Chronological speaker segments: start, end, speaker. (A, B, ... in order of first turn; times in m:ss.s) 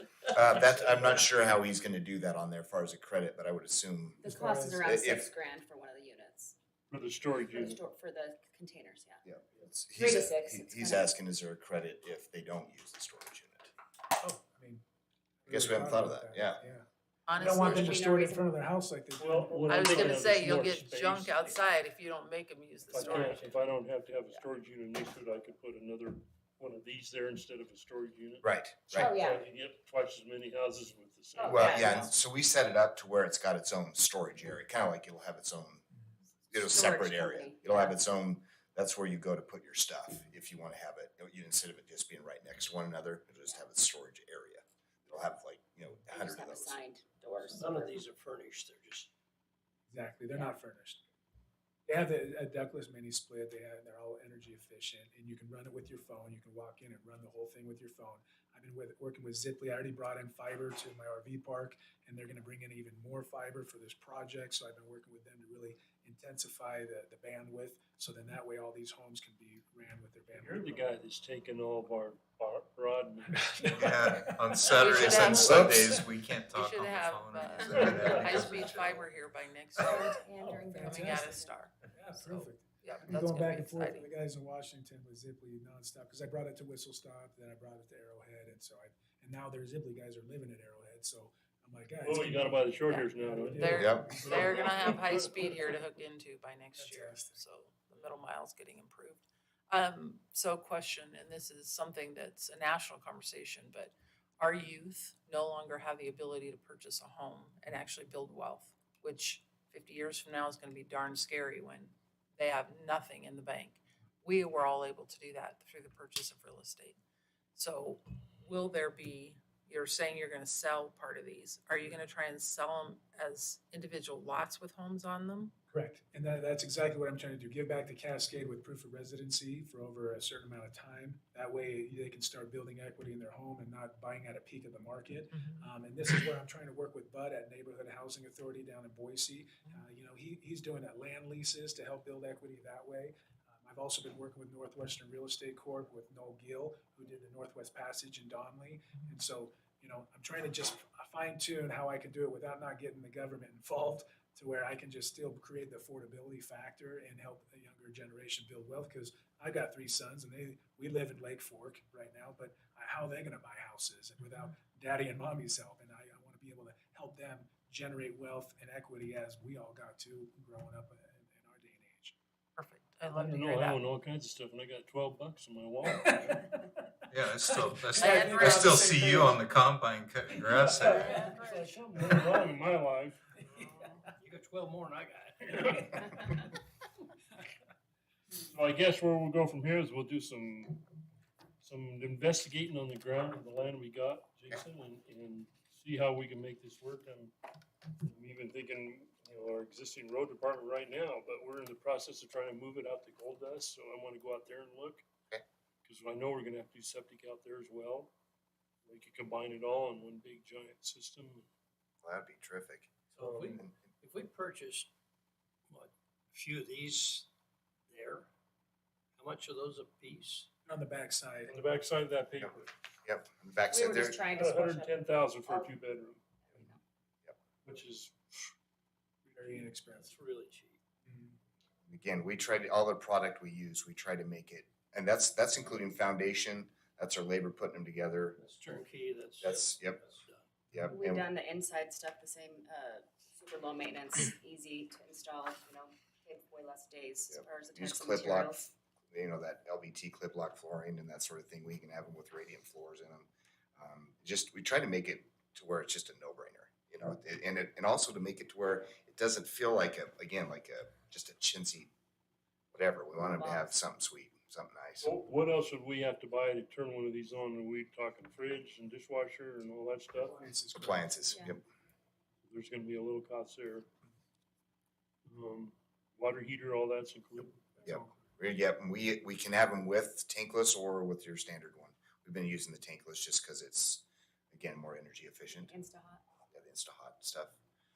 0:00.3-0:00.8 A
0:00.3-0:04.2 B
0:04.2-0:06.6 C
0:04.2-0:04.8 D
0:04.8-0:05.3 B
0:06.9-0:07.8 E
0:07.4-0:09.2 C
0:09.2-0:13.7 B
0:10.0-0:11.1 C
0:14.2-0:14.8 D
0:15.4-0:20.4 D
0:15.5-0:16.6 B
0:17.3-0:18.0 F
0:17.4-0:18.5 C
0:19.2-0:21.6 E
0:19.7-0:23.7 F
0:22.9-0:32.0 E
0:28.4-0:29.2 B
0:28.9-0:29.4 C
0:31.4-0:32.1 C
0:31.5-0:35.8 B
0:36.5-0:46.8 B
0:36.6-0:38.0 C
0:46.1-0:48.0 C
0:47.5-0:49.1 A
0:49.9-0:51.0 D
0:51.9-1:10.9 D
1:10.3-1:13.9 E
1:13.3-1:15.9 D
1:13.8-1:19.1 G
1:14.7-1:15.9 F
1:15.3-1:15.9 B
1:16.5-1:24.1 F
1:17.8-1:18.2 E
1:19.8-1:35.6 D
1:20.2-1:21.5 C
1:32.0-1:35.3 E
1:32.8-1:57.0 F
1:33.8-1:34.1 B
1:36.7-1:37.4 D
1:57.6-2:05.6 F
2:05.7-2:52.2 D
2:15.3-2:15.7 F
2:52.6-2:53.8 F
2:53.1-2:56.4 E
2:55.9-2:59.4 D
2:57.1-3:01.1 G
2:58.0-2:59.3 F
3:00.5-3:02.4 A
3:01.0-3:03.9 E
3:03.5-3:03.8 D
3:04.2-3:06.3 A
3:05.5-3:06.5 E
3:08.3-3:10.8 E
3:11.6-3:17.3 E
3:18.0-3:25.0 E
3:25.8-3:28.1 E
3:28.9-3:31.5 E
3:32.0-3:32.9 B
3:33.1-3:34.9 A
3:33.2-3:33.6 E
3:35.7-3:37.3 A
3:37.9-3:38.3 A
3:39.2-3:40.5 A
3:40.7-3:41.6 D
3:41.5-3:42.7 E
3:42.4-3:44.2 B
3:43.7-3:45.7 C
3:44.3-3:46.2 E
3:46.5-3:46.8 C
3:47.6-3:48.5 E
3:49.3-3:49.7 E
3:49.3-3:50.2 D
3:49.9-3:50.8 A
3:51.1-3:51.4 D
3:51.9-3:58.4 B
3:58.4-4:00.5 A
3:59.4-4:00.0 B
4:00.7-4:01.2 B
4:00.9-4:08.6 C
4:07.3-4:21.9 B
4:22.7-4:25.1 B
4:23.2-4:23.8 C
4:25.0-4:30.4 E
4:30.2-4:31.3 D
4:30.7-4:31.6 B
4:32.5-4:33.9 E
4:35.3-4:38.1 E
4:37.8-4:45.7 B
4:45.7-4:46.2 C
4:46.5-4:47.6 B